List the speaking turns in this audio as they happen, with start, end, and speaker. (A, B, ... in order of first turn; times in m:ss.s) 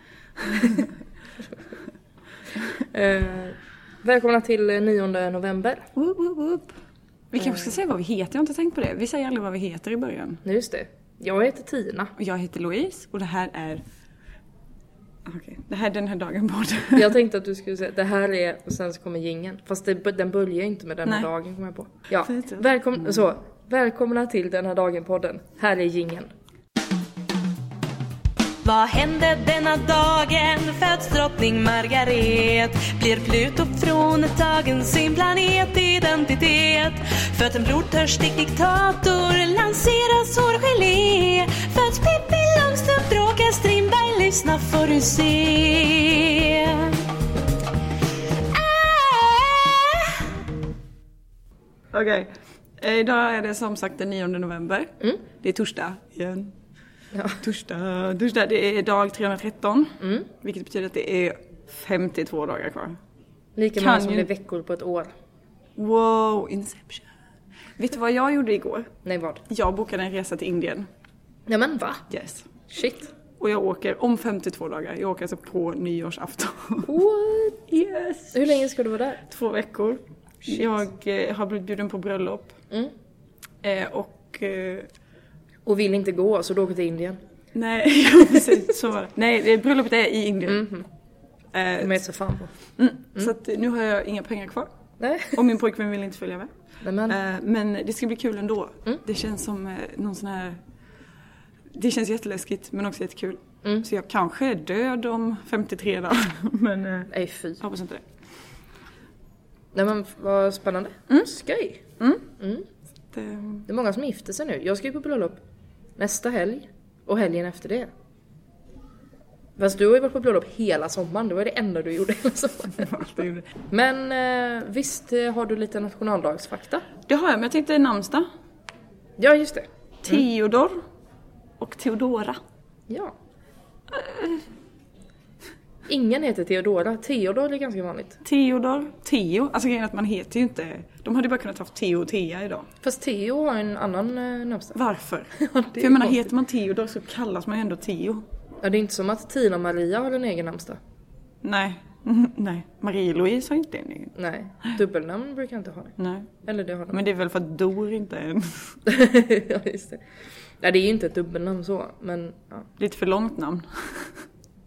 0:00.4-0:01.0 A
0:02.8-0:05.9 B
0:06.0-0:06.8 A
0:07.3-0:10.4 A
0:10.4-0:12.2 B
0:12.2-0:13.8 A
0:15.2-0:17.2 A
0:17.0-0:26.3 B
0:22.2-0:23.2 A
0:28.6-0:47.0 C
0:48.5-0:50.2 C
0:51.9-0:56.6 A
0:57.1-0:57.4 B
0:57.4-1:03.0 A
1:00.0-1:00.3 B
1:03.6-1:05.1 B
1:03.8-1:04.3 A
1:05.8-1:07.1 A
1:07.8-1:08.9 A
1:09.0-1:09.4 B
1:09.5-1:10.9 A
1:11.5-1:12.1 B
1:12.1-1:12.5 A
1:12.7-1:13.1 B
1:13.4-1:16.9 A
1:16.8-1:17.6 B
1:17.7-1:18.6 A
1:18.3-1:19.2 B
1:19.2-1:22.6 A
1:23.6-1:24.9 A
1:25.7-1:27.2 B
1:27.5-1:30.7 A
1:30.5-1:30.9 B
1:31.5-1:32.0 A
1:31.8-1:32.5 B
1:32.8-1:34.7 A
1:35.0-1:35.4 B
1:35.3-1:36.5 A
1:36.8-1:37.2 B
1:37.1-1:40.6 A
1:41.7-1:48.1 A
1:47.1-1:47.6 B
1:49.7-1:51.8 B
1:52.0-1:52.3 A
1:52.4-1:52.7 B
1:53.1-1:53.6 A
1:53.7-1:55.4 B
1:56.0-1:57.9 B
1:59.6-2:03.2 B
2:02.8-2:03.5 A
2:03.7-2:06.8 B
2:07.1-2:08.3 A
2:09.2-2:09.7 B
2:10.0-2:10.8 A
2:11.6-2:12.4 A
2:12.9-2:13.2 B
2:13.9-2:14.4 A
2:15.9-2:18.2 B
2:18.2-2:22.7 A
2:22.8-2:24.8 B
2:24.7-2:28.2 A
2:25.3-2:26.3 B
2:28.6-2:30.8 B
2:31.4-2:34.2 A
2:34.2-2:37.0 B
2:36.0-2:36.3 A
2:36.9-2:38.8 A
2:38.9-2:40.0 B
2:40.6-2:42.7 B
2:42.8-2:44.2 A